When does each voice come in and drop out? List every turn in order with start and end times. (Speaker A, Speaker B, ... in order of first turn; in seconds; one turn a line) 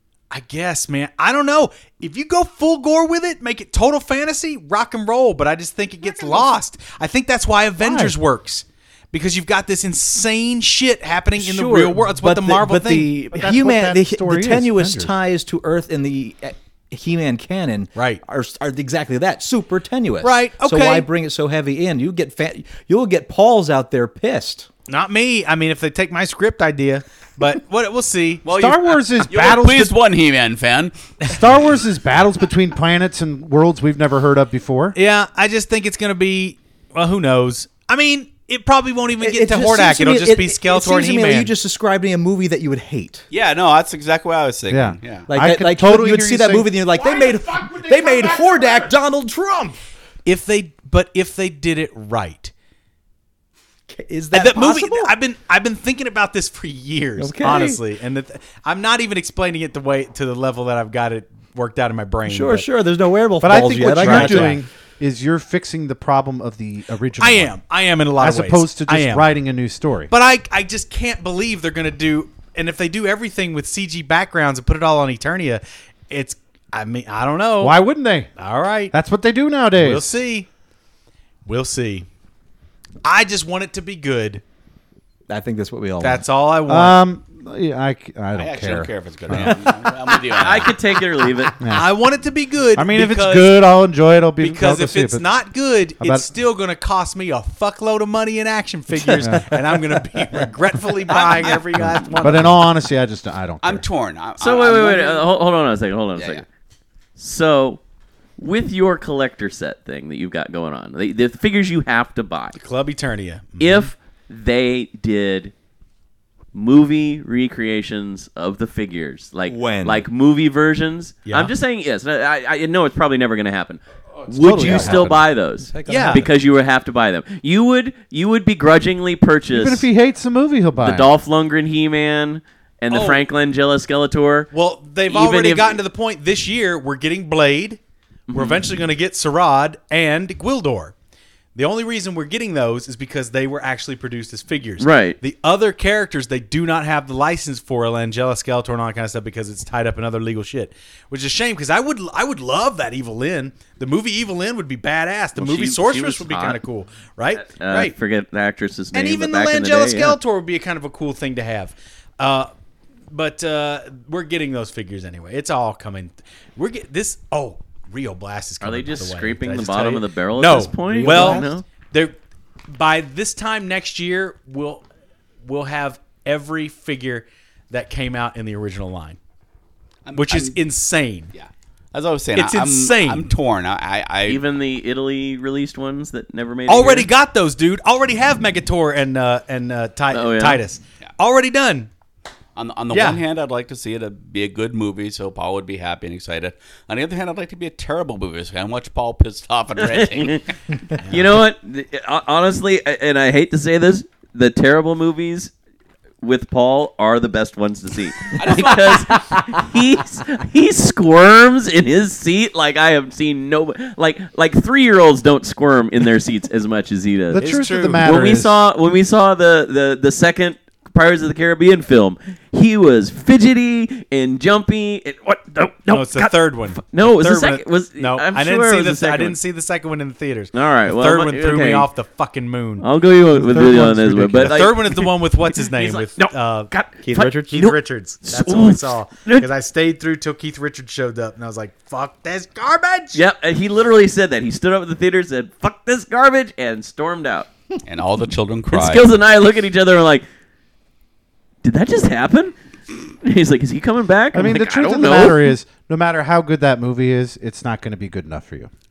Speaker A: 0.3-13.2
Speaker B: 7.8-8.1
Speaker B: 11.3-24.7
Speaker C: 13.3-15.1
Speaker A: 17.9-18.2
Speaker A: 20.2-21.1
Speaker A: 24.9-28.5
Speaker D: 28.4-30.9
Speaker C: 28.5-29.9
Speaker A: 29.3-29.9
Speaker C: 31.3-35.0
Speaker A: 34.9-41.5
Speaker B: 39.2-43.3
Speaker D: 43.3-45.3
Speaker C: 44.7-46.7
Speaker B: 45.3-49.8
Speaker D: 47.6-48.1
Speaker A: 50.2-52.5
Speaker B: 53.9-55.1
Speaker A: 54.3-62.7
Speaker B: 57.2-57.8
Speaker B: 62.2-64.6
Speaker C: 63.4-67.5
Speaker A: 63.4-64.6
Speaker A: 67.2-69.3
Speaker C: 68.2-70.1
Speaker A: 70.1-77.8
Speaker C: 77.6-78.3
Speaker A: 78.4-78.9
Speaker C: 78.9-80.2
Speaker A: 79.7-80.5
Speaker A: 81.5-82.1
Speaker A: 83.0-84.4
Speaker B: 85.3-86.2
Speaker A: 86.0-87.0
Speaker C: 86.7-89.6
Speaker D: 88.3-90.8
Speaker E: 90.4-91.5
Speaker A: 91.5-93.6
Speaker C: 91.6-91.9
Speaker C: 92.7-95.3
Speaker A: 94.4-102.7
Speaker C: 96.0-96.3
Speaker C: 99.2-99.6
Speaker D: 101.1-101.6
Speaker C: 101.8-103.8
Speaker D: 103.6-105.3
Speaker E: 104.4-106.4
Speaker D: 106.2-106.4
Speaker E: 107.2-107.8
Speaker E: 108.4-112.6
Speaker A: 112.5-113.9
Speaker E: 113.6-115.5
Speaker E: 116.5-129.9
Speaker B: 119.5-120.0
Speaker A: 121.2-121.5
Speaker C: 124.4-125.2
Speaker B: 124.4-126.2
Speaker A: 125.9-126.2
Speaker C: 129.5-131.1
Speaker E: 130.8-134.5
Speaker A: 132.9-133.2
Speaker A: 134.5-137.8
Speaker E: 135.1-135.8
Speaker E: 138.3-138.7
Speaker A: 138.3-140.9
Speaker A: 141.5-157.9
Speaker E: 144.8-145.2
Speaker E: 155.3-156.6
Speaker E: 157.3-160.2
Speaker A: 158.9-162.5
Speaker A: 163.1-172.1
Speaker E: 168.6-171.6
Speaker B: 170.8-171.5
Speaker A: 172.7-174.8
Speaker A: 175.4-179.2
Speaker D: 180.0-180.6
Speaker A: 180.2-181.3
Speaker D: 181.3-184.4
Speaker A: 182.3-183.3
Speaker E: 184.2-187.1
Speaker A: 186.7-191.9
Speaker E: 190.1-190.6
Speaker D: 192.6-200.5
Speaker A: 192.9-193.2
Speaker E: 199.8-205.5
Speaker E: 206.2-229.4
Speaker D: 208.3-209.2
Speaker C: 217.3-218.6
Speaker A: 217.4-218.1
Speaker A: 225.9-232.9
Speaker E: 230.5-231.9
Speaker E: 232.8-239.5
Speaker A: 233.5-236.7
Speaker C: 233.5-234.6
Speaker B: 237.0-237.8
Speaker A: 237.4-243.2
Speaker E: 243.1-247.5
Speaker D: 247.8-249.1
Speaker E: 248.7-250.2
Speaker E: 251.6-252.5
Speaker E: 253.2-255.5
Speaker C: 254.3-258.7